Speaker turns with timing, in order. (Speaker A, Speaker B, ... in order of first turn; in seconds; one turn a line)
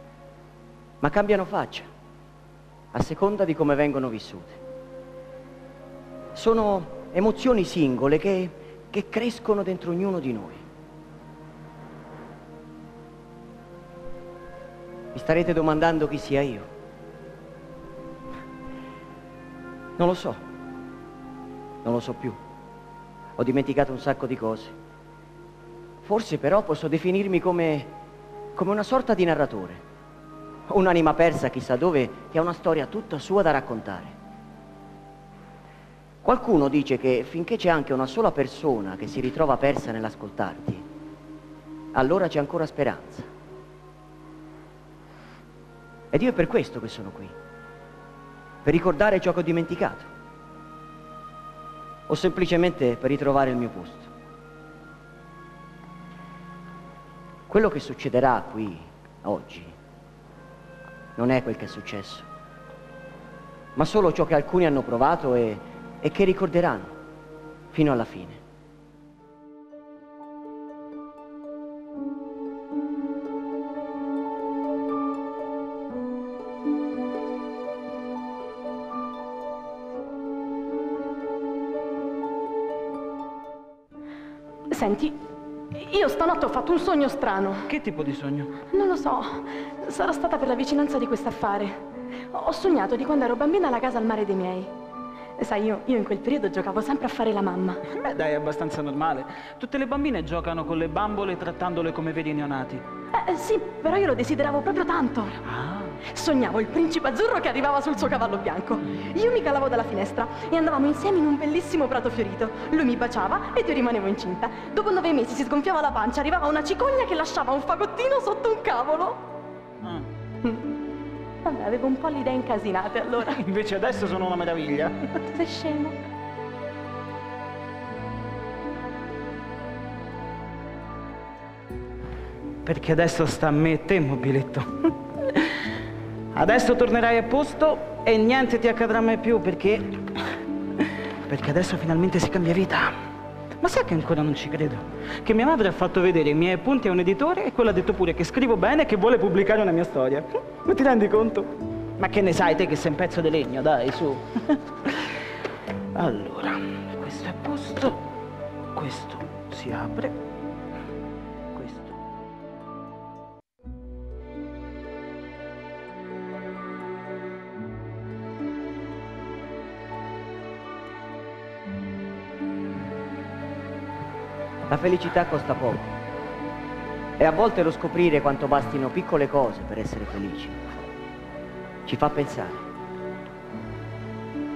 Speaker A: 1.0-1.9
Speaker A: 2.9-4.6
Speaker A: 6.3-10.6
Speaker A: 15.1-16.7
Speaker A: 20.0-20.4
Speaker A: 21.8-22.4
Speaker A: 23.4-24.7
Speaker A: 26.0-27.9
Speaker A: 28.6-29.8
Speaker A: 30.7-34.1
Speaker A: 36.2-40.8
Speaker A: 41.9-43.3
Speaker A: 46.1-47.3
Speaker A: 48.6-50.1
Speaker A: 52.1-54.1
Speaker A: 57.5-59.7
Speaker A: 61.2-62.2
Speaker A: 63.8-66.9
Speaker A: 67.7-68.4
Speaker B: 84.7-85.2
Speaker B: 85.7-87.7
Speaker C: 87.7-88.5
Speaker B: 88.7-91.8
Speaker B: 92.3-94.7
Speaker B: 95.4-97.8
Speaker C: 97.9-102.8
Speaker B: 103.1-105.4
Speaker C: 105.5-106.0
Speaker B: 106.0-119.2
Speaker B: 121.4-123.4
Speaker C: 123.3-125.1
Speaker B: 125.3-126.0
Speaker C: 132.6-135.6
Speaker C: 136.3-140.2
Speaker C: 140.8-142.9
Speaker C: 143.6-155.2
Speaker C: 155.9-158.0
Speaker C: 158.7-160.2
Speaker C: 161.5-162.0
Speaker A: 174.7-175.9
Speaker A: 177.2-180.6
Speaker A: 181.8-182.7